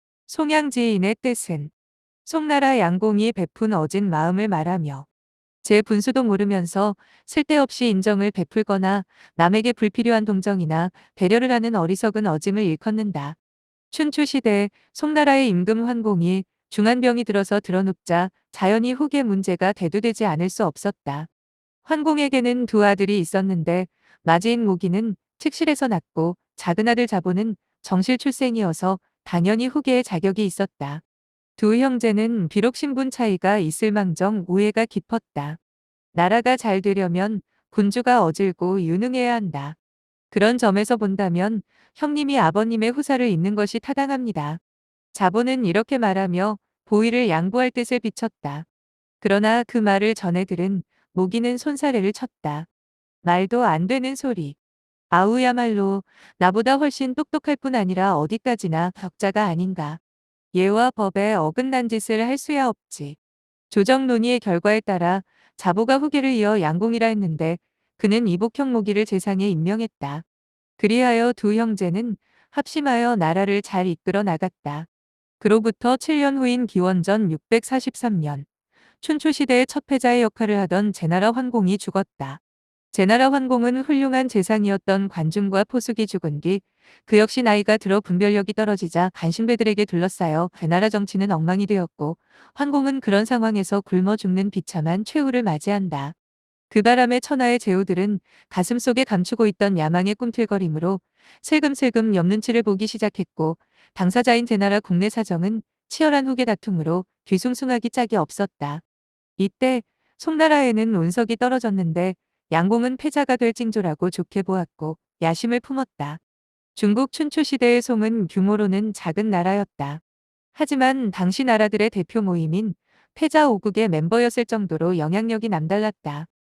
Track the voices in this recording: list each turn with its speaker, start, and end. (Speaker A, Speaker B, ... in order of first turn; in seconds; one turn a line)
Speaker A: 0.3-1.7
Speaker A: 2.2-5.0
Speaker A: 5.6-13.3
Speaker A: 13.9-21.3
Speaker A: 21.8-31.0
Speaker A: 31.6-35.6
Speaker A: 36.1-39.8
Speaker A: 40.3-44.6
Speaker A: 45.1-48.6
Speaker A: 49.2-52.7
Speaker A: 53.2-54.5
Speaker A: 55.1-60.0
Speaker A: 60.5-63.2
Speaker A: 63.7-70.2
Speaker A: 70.8-74.9
Speaker A: 75.4-78.5
Speaker A: 79.0-82.4
Speaker A: 82.9-96.1
Speaker A: 96.7-108.8
Speaker A: 109.4-116.2
Speaker A: 116.7-120.0
Speaker A: 120.5-126.3